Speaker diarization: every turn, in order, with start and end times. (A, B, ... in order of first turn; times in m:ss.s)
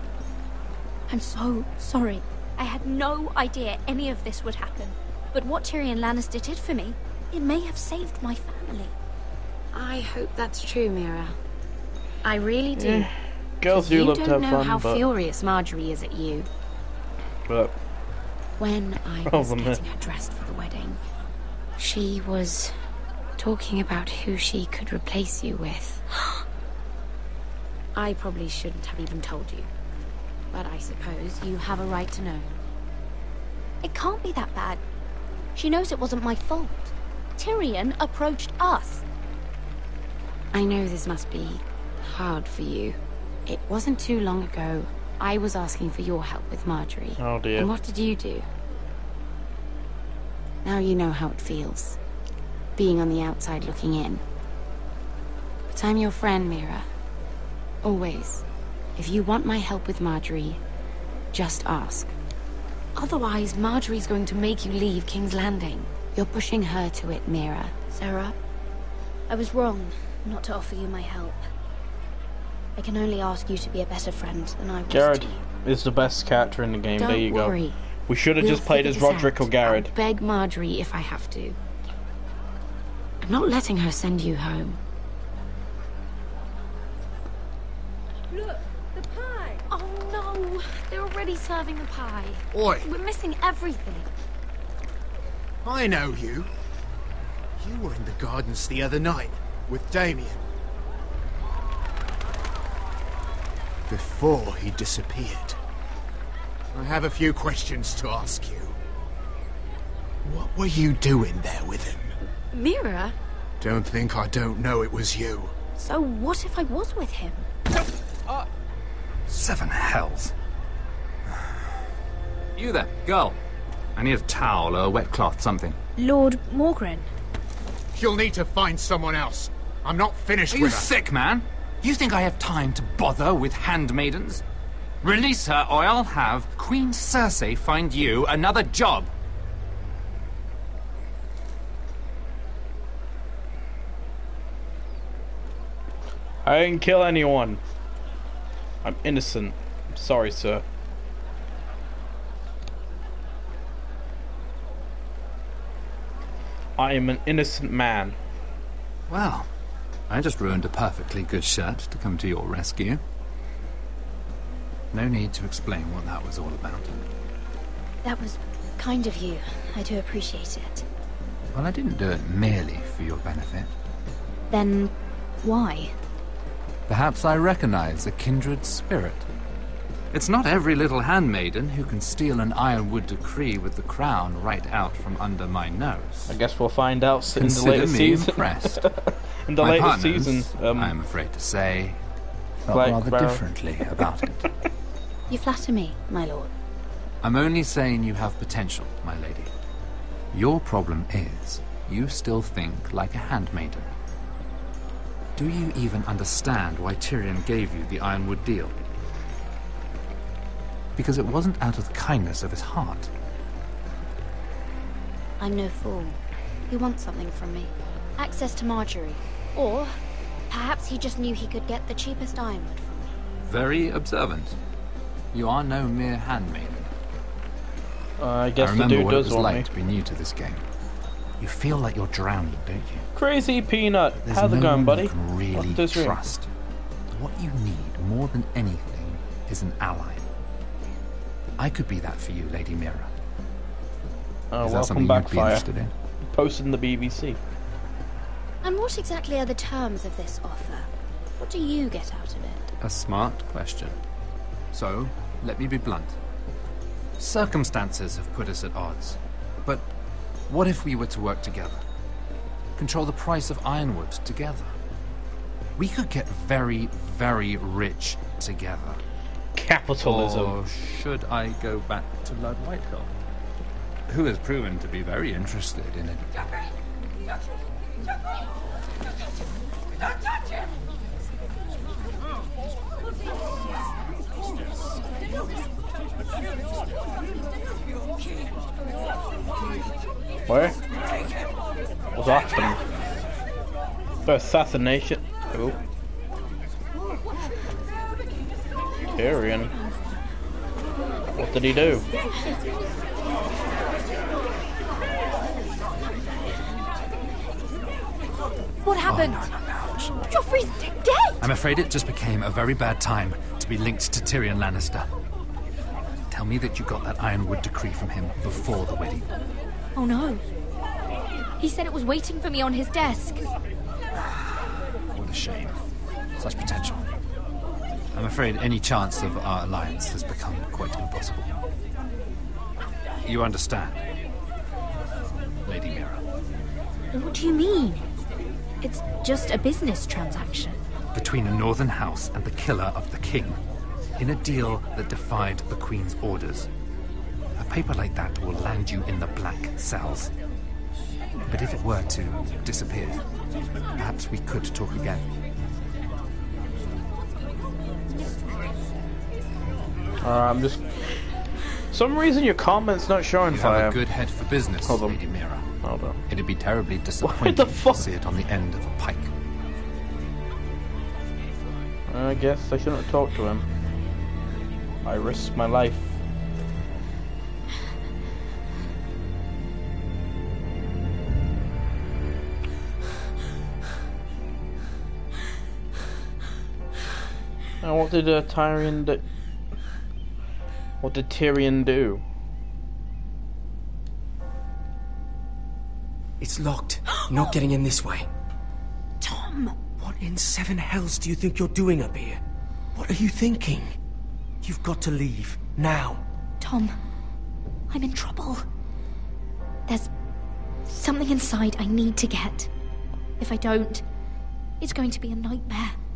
0:01.1-0:08.9 A
0:09.7-0:11.4 B
0:12.2-0:13.1 B
0:12.8-0:15.0 C
0:13.7-0:16.5 B
0:17.5-0:17.7 C
0:18.6-0:21.0 B
0:19.3-0:19.8 C
0:21.8-0:22.8 B
0:23.4-0:26.0 B
0:28.0-0:29.7 B
0:30.5-0:32.5 B
0:33.8-0:34.8 A
0:35.6-0:39.0 A
0:40.5-0:48.4 B
0:47.2-0:47.7 C
0:50.6-0:52.0 B
0:52.8-0:54.2 B
0:55.7-0:56.9 B
0:57.8-0:58.4 B
0:59.0-1:00.6 B
1:01.3-1:02.1 B
1:03.0-1:07.9 B
1:07.9-1:08.3 A
1:09.3-1:11.5 A
1:12.8-1:15.4 A
1:14.9-1:19.9 C
1:17.0-1:17.8 B
1:18.4-1:21.6 B
1:23.2-1:24.8 B
1:29.7-1:34.1 B
1:31.7-1:32.3 A
1:37.6-1:40.4 D
1:43.9-1:45.6 D
1:47.0-1:48.7 D
1:50.2-1:52.1 D
1:52.5-1:53.2 B
1:53.6-1:55.5 D
1:55.8-1:57.5 A
1:59.3-2:00.3 E
2:02.6-2:03.4 E
2:04.0-2:05.8 E
2:06.0-2:07.1 A
2:10.4-2:14.4 E
2:15.0-2:19.1 E
2:26.4-2:27.6 C
2:28.8-2:30.6 C
2:36.8-2:38.2 C
2:39.1-2:39.5 E
2:40.1-2:43.0 E
2:44.9-2:46.9 E
2:48.0-2:50.8 A
2:51.5-2:53.7 E
2:54.5-2:56.0 A
2:56.9-2:59.3 E
3:00.1-3:06.4 E
3:06.3-3:08.9 C
3:07.4-3:08.8 E
3:09.5-3:10.9 C
3:09.6-3:12.0 E
3:12.7-3:14.5 E
3:12.7-3:13.4 C
3:15.3-3:16.5 A
3:17.2-3:19.5 E
3:20.3-3:23.9 E
3:25.4-3:28.8 E
3:31.0-3:33.1 E
3:35.4-3:36.2 A
3:36.7-3:40.0 A
3:40.5-3:43.1 A
3:43.4-3:44.6 E
3:45.3-3:46.9 E
3:48.2-3:49.7 C
3:48.6-3:50.6 E
3:51.4-3:53.0 E
3:53.2-3:56.2 C
3:54.2-3:56.5 E
3:57.1-4:00.2 E
4:01.6-4:03.1 E
4:04.5-4:05.7 C
4:04.6-4:05.9 E
4:06.3-4:07.4 C
4:08.6-4:12.7 A
4:12.8-4:14.0 E
4:14.7-4:16.2 E
4:17.2-4:19.9 E
4:20.5-4:21.8 E
4:22.8-4:24.7 E
4:25.8-4:29.0 E
4:29.6-4:30.6 C
4:30.0-4:33.1 E
4:34.1-4:36.4 E
4:50.5-4:50.8 C
4:52.2-4:52.8 C
4:54.2-4:55.8 C
4:59.2-4:59.7 C
5:01.4-5:02.1 C
5:08.8-5:09.4 A
5:09.1-5:10.2 E
5:10.3-5:11.4 A
5:11.4-5:15.1 E
5:16.3-5:19.3 E
5:20.0-5:20.4 A
5:21.6-5:23.5 A
5:25.1-5:25.8 E
5:26.4-5:27.1 E
5:28.1-5:31.5 E
5:33.2-5:34.0 E
5:35.6-5:36.2 E
5:37.1-5:38.0 A
5:38.8-5:40.8 A
5:41.1-5:43.6 E
5:44.2-5:46.7 E
5:47.6-5:50.3 E
5:51.4-5:53.2 E
5:54.0-5:55.3 E
6:00.2-6:01.0 C
6:01.9-6:04.0 C
6:03.5-6:05.7 E
6:04.8-6:05.2 C
6:05.8-6:06.2 C
6:06.3-6:09.3 E
6:07.2-6:08.1 C
6:12.1-6:13.7 C
6:15.0-6:16.2 C
6:27.8-6:29.2 C
6:31.0-6:32.2 C
6:36.4-6:38.3 F
6:37.1-6:37.5 A
6:39.2-6:39.8 A
6:40.0-6:42.4 F
6:43.0-6:44.0 F
6:44.6-6:46.2 F
6:46.6-6:47.0 A
6:47.9-6:48.6 A
6:50.9-6:52.7 A
6:53.4-6:54.0 A
6:54.8-6:56.0 A